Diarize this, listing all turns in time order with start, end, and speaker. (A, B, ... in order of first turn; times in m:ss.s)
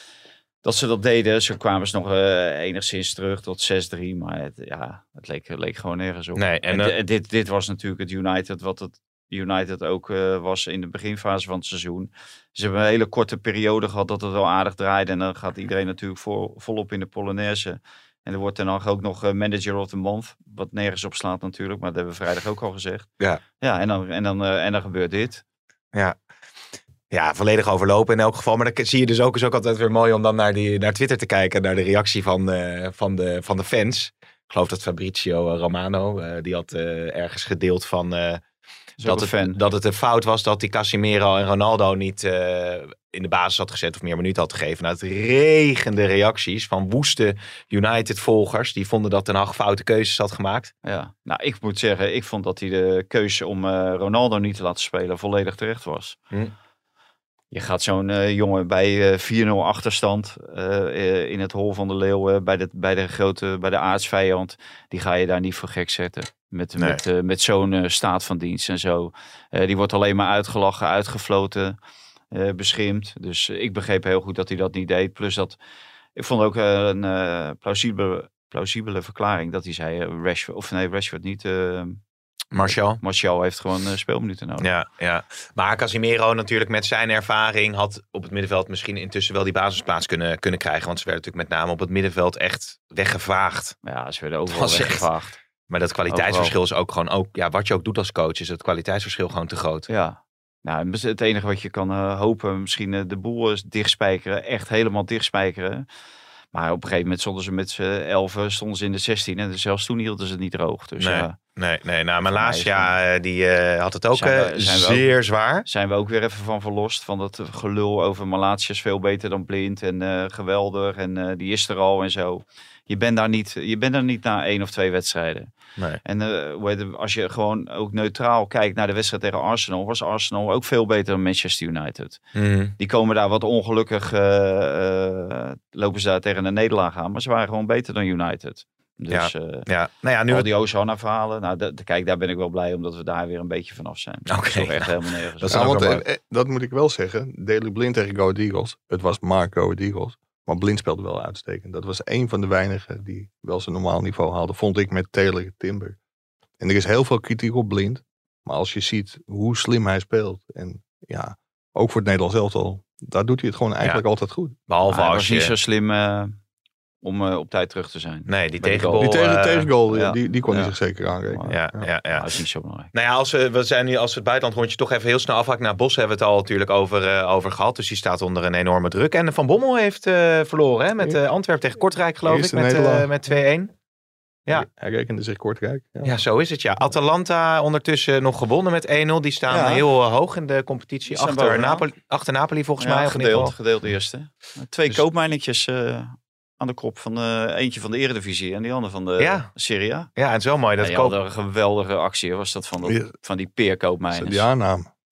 0:00.6-0:23.1 A
0:06.4-0:07.0 B
0:23.6-0:25.4 A
0:27.1-0:38.4 B
0:39.0-0:39.6 A
0:39.0-0:50.7 B
0:50.8-0:56.2 A
0:57.5-1:11.8 A
1:12.3-1:15.6 A
1:16.2-1:22.0 A
1:22.5-1:23.0 B
1:22.6-1:24.7 A
1:24.6-1:33.8 B
1:33.8-1:35.4 A
1:34.5-1:35.1 B
1:35.7-1:39.9 B
1:36.1-1:36.6 A
1:39.9-1:45.9 A
1:46.5-1:51.4 A
1:51.0-1:55.7 B
1:52.3-1:53.0 A
1:54.1-1:55.1 A
1:55.6-2:05.5 A
2:06.0-2:12.2 A
2:12.4-2:12.8 B
2:12.8-2:19.7 A
2:19.1-2:20.5 B
2:20.3-2:25.8 A
2:24.3-2:26.0 B
2:25.5-2:36.0 C
2:36.6-2:44.6 C
2:44.7-2:45.5 B
2:44.9-2:46.4 A
2:47.0-2:49.1 A
2:48.3-2:49.7 B
2:49.0-2:51.9 C
2:49.9-2:50.8 A
2:51.3-2:52.9 A
2:51.5-2:52.3 B
2:52.9-3:03.7 B
3:02.2-3:03.1 C
3:04.5-3:06.2 C
3:06.0-3:13.6 B
3:09.5-3:09.8 A
3:11.1-3:11.8 A
3:12.8-3:20.1 A
3:19.2-3:19.5 B
3:20.2-3:21.2 B
3:20.8-3:24.5 A
3:22.8-3:23.1 C
3:24.1-3:24.9 C